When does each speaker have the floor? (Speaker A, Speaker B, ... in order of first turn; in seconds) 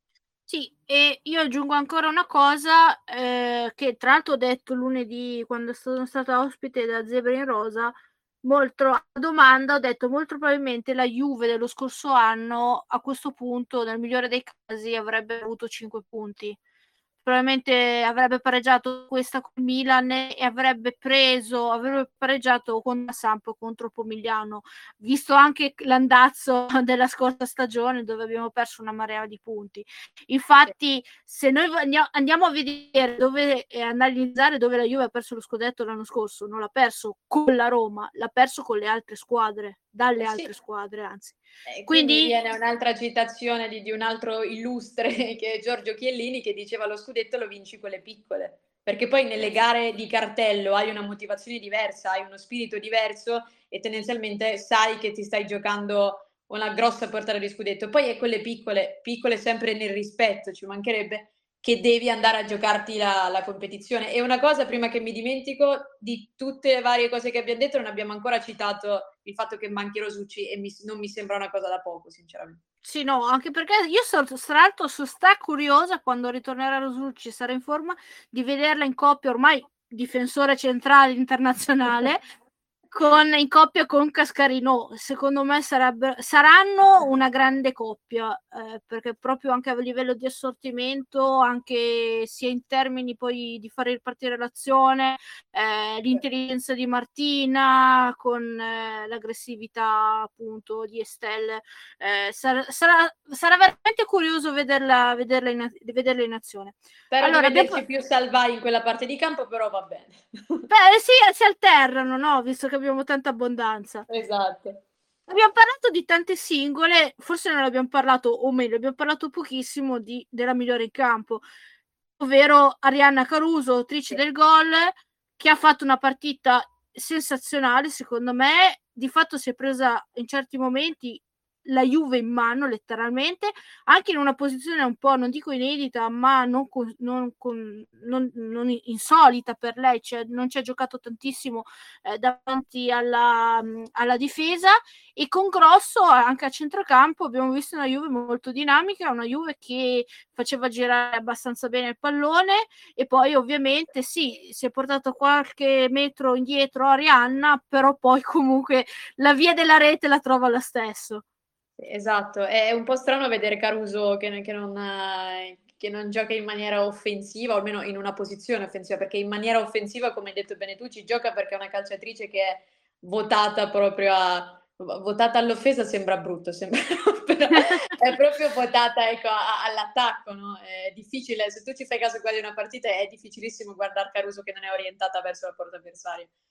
Speaker A: 0.5-16.6, 17.2-42.3, 72.8-82.2, 82.9-107.8, 110.7-114.1, 115.3-121.4, 122.2-161.2
Speaker B: 40.2-40.5, 41.7-72.6, 107.1-110.7, 114.1-114.8, 161.8-186.3